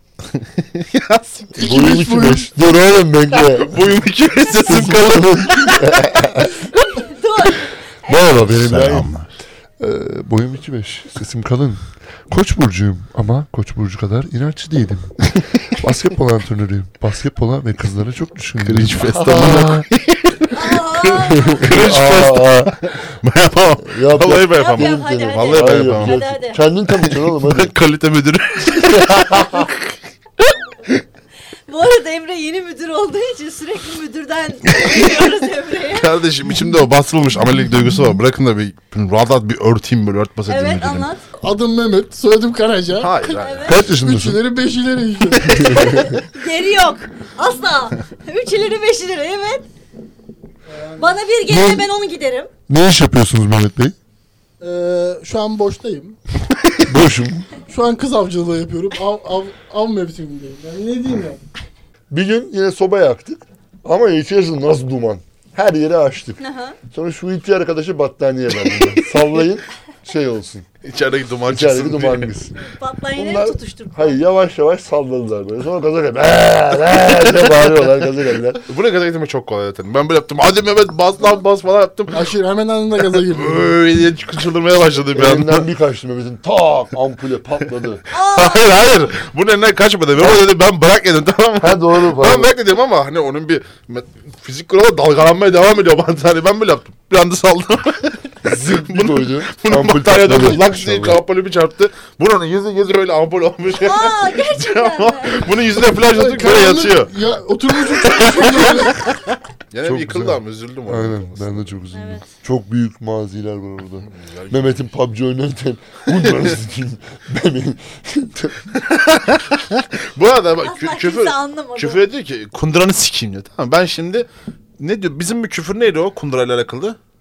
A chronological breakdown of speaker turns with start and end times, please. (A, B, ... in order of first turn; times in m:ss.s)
0:00.4-0:01.5 A
0:01.6-0:02.5 B
0:01.6-0:04.0 C
0:03.4-0:06.2 A
0:04.6-0:06.7 C
0:06.5-0:08.4 D
0:08.1-0:09.1 C
0:08.4-0:09.3 A
0:09.8-0:19.9 C
0:18.6-0:21.0 A
0:20.5-0:21.7 D
0:21.3-0:22.8 C
0:21.6-0:26.2 A
0:23.8-0:27.8 C
0:24.5-0:26.6 D
0:27.0-0:29.9 A
0:30.4-0:31.0 A
0:31.7-0:36.2 D
0:34.8-0:35.1 A
0:35.9-0:41.1 A
0:40.5-0:41.2 D
0:41.4-0:46.1 B
0:43.0-0:43.7 A
0:43.4-0:43.8 D
0:43.6-0:44.4 C
0:45.6-0:46.1 C
0:45.7-0:49.7 D
0:50.7-0:51.2 B
0:51.0-0:52.5 D
0:51.5-0:51.9 C
0:52.7-0:54.0 C
0:54.6-0:56.2 B
0:56.8-0:57.5 C
0:57.6-1:01.4 B
1:02.1-1:06.4 C
1:06.4-1:06.8 D
1:06.9-1:10.7 C
1:10.8-1:12.3 A
1:11.5-1:12.6 C
1:12.6-1:14.2 D
1:13.2-1:18.6 C
1:18.7-1:22.3 A
1:22.1-1:23.7 B
1:23.2-1:25.7 A
1:25.1-1:28.0 C
1:28.1-1:28.9 D
1:28.3-1:47.1 A
1:31.6-1:32.5 C
1:38.4-1:41.2 C
1:43.7-1:45.5 D
1:46.0-1:49.1 B
1:47.8-1:49.1 A
1:49.7-1:51.8 A
1:49.8-1:58.7 C
1:51.9-1:52.3 D
1:54.0-1:54.7 A
1:58.7-2:04.3 A
2:00.6-2:02.0 D
2:04.8-2:07.0 A